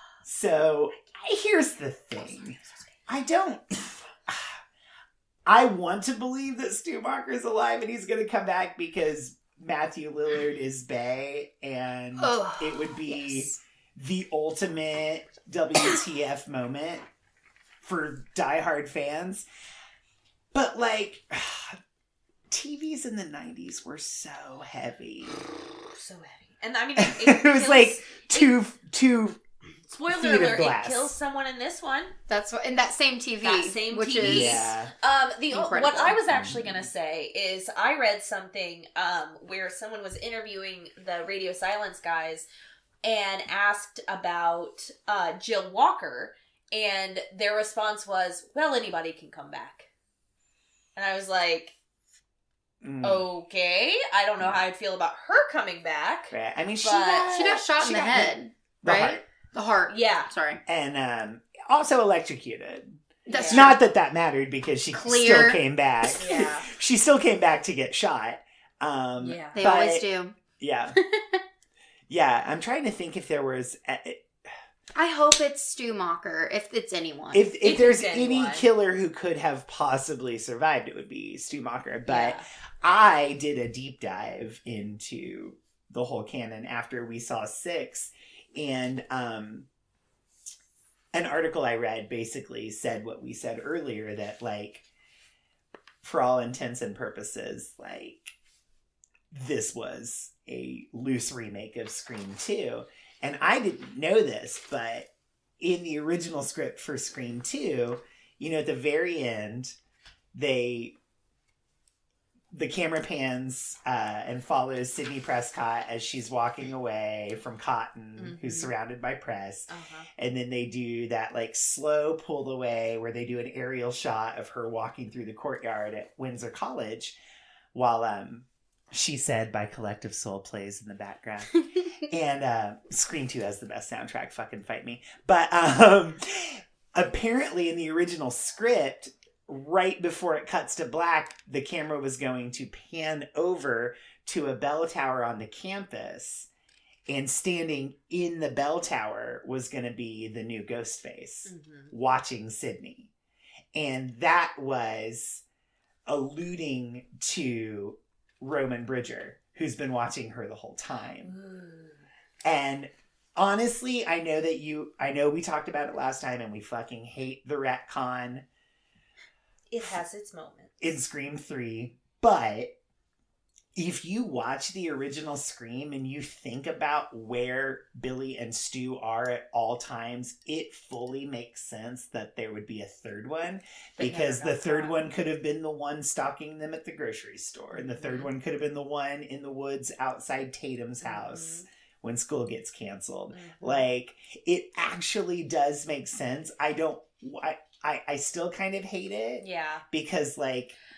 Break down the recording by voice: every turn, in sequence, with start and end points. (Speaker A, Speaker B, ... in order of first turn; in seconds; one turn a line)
Speaker A: 0.2-4.6
Speaker B: 2.2-3.0
Speaker A: 5.5-17.0
Speaker C: 12.2-13.6
Speaker A: 17.8-19.4
Speaker A: 20.5-21.8
Speaker A: 22.5-25.4
Speaker B: 25.9-28.5
Speaker A: 27.0-29.4
Speaker B: 29.9-32.1
Speaker A: 30.1-31.1
Speaker C: 32.3-34.6
Speaker B: 33.4-42.5
Speaker A: 34.2-34.9
Speaker C: 35.5-36.2
Speaker A: 36.3-36.9
Speaker B: 43.0-49.9
Speaker B: 51.0-51.7
Speaker A: 52.8-53.2
Speaker B: 53.0-57.9
Speaker A: 56.3-59.2
Speaker C: 57.3-60.6
Speaker B: 59.9-60.3
Speaker A: 60.6-70.0
Speaker B: 63.3-63.7
Speaker C: 63.3-63.8
Speaker C: 64.9-65.6
Speaker B: 66.2-66.7
Speaker B: 69.2-69.6
Speaker C: 69.5-70.3
Speaker A: 70.6-70.9
Speaker C: 71.0-71.4
Speaker A: 72.1-74.3
Speaker C: 75.0-77.5
Speaker A: 77.3-89.7
Speaker B: 77.6-78.7
Speaker B: 82.0-82.4
Speaker A: 91.1-94.8
Speaker A: 96.0-98.3
Speaker A: 99.3-105.1
Speaker A: 105.6-109.7
Speaker A: 110.3-110.9
Speaker A: 112.5-127.2
Speaker B: 118.2-118.7
Speaker B: 119.7-120.1
Speaker A: 127.7-146.5
Speaker A: 147.1-153.1
Speaker B: 151.5-151.9
Speaker A: 153.7-155.4
Speaker A: 156.1-161.3
Speaker B: 161.2-162.0
Speaker A: 162.4-168.4
Speaker B: 169.7-170.8
Speaker A: 170.8-172.7
Speaker A: 173.7-200.7
Speaker B: 184.0-185.0
Speaker B: 187.7-188.3
Speaker B: 191.0-191.6
Speaker B: 193.3-193.8
Speaker B: 199.4-199.8